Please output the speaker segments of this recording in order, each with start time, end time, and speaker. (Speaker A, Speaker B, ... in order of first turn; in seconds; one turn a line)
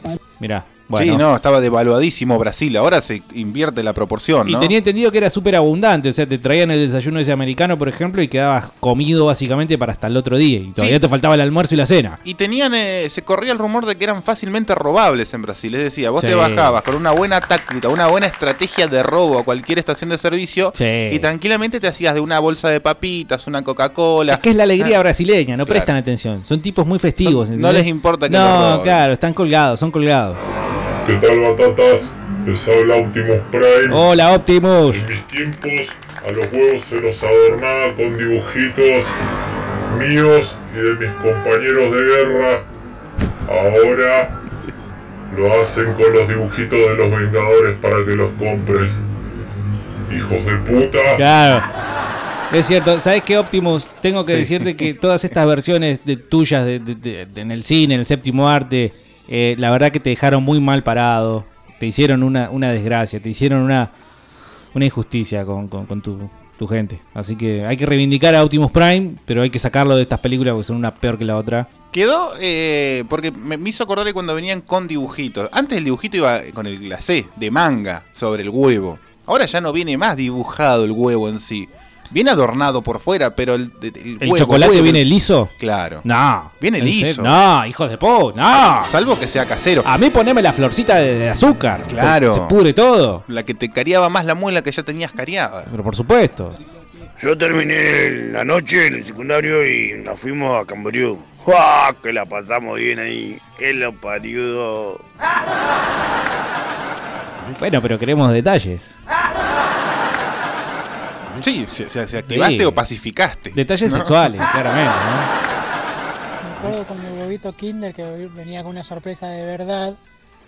Speaker A: 0.4-1.2
Speaker B: 0.9-4.7
Speaker A: 4.5-12.2
Speaker B: 12.2-24.9
Speaker A: 16.2-16.8
Speaker A: 20.7-21.3
Speaker A: 24.3-30.4
Speaker B: 27.2-29.0
Speaker C: 31.0-34.0
Speaker A: 33.9-35.1
Speaker C: 34.9-39.1
Speaker C: 39.9-42.6
Speaker C: 43.5-44.3
Speaker C: 45.3-49.0
Speaker C: 50.1-51.2
Speaker A: 51.2-51.7
Speaker A: 52.5-63.9
Speaker B: 54.3-54.8
Speaker A: 64.7-71.7
Speaker B: 71.9-85.0
Speaker A: 84.2-85.5
Speaker B: 85.6-86.0
Speaker A: 86.0-88.9
Speaker B: 86.6-87.4
Speaker B: 88.5-89.9
Speaker A: 89.8-93.2
Speaker B: 91.9-92.6
Speaker B: 93.3-95.7
Speaker A: 95.7-96.5
Speaker D: 97.2-105.0
Speaker A: 107.6-108.9
Speaker B: 111.4-114.5
Speaker A: 112.2-112.8
Speaker A: 113.5-115.3
Speaker E: 116.4-120.0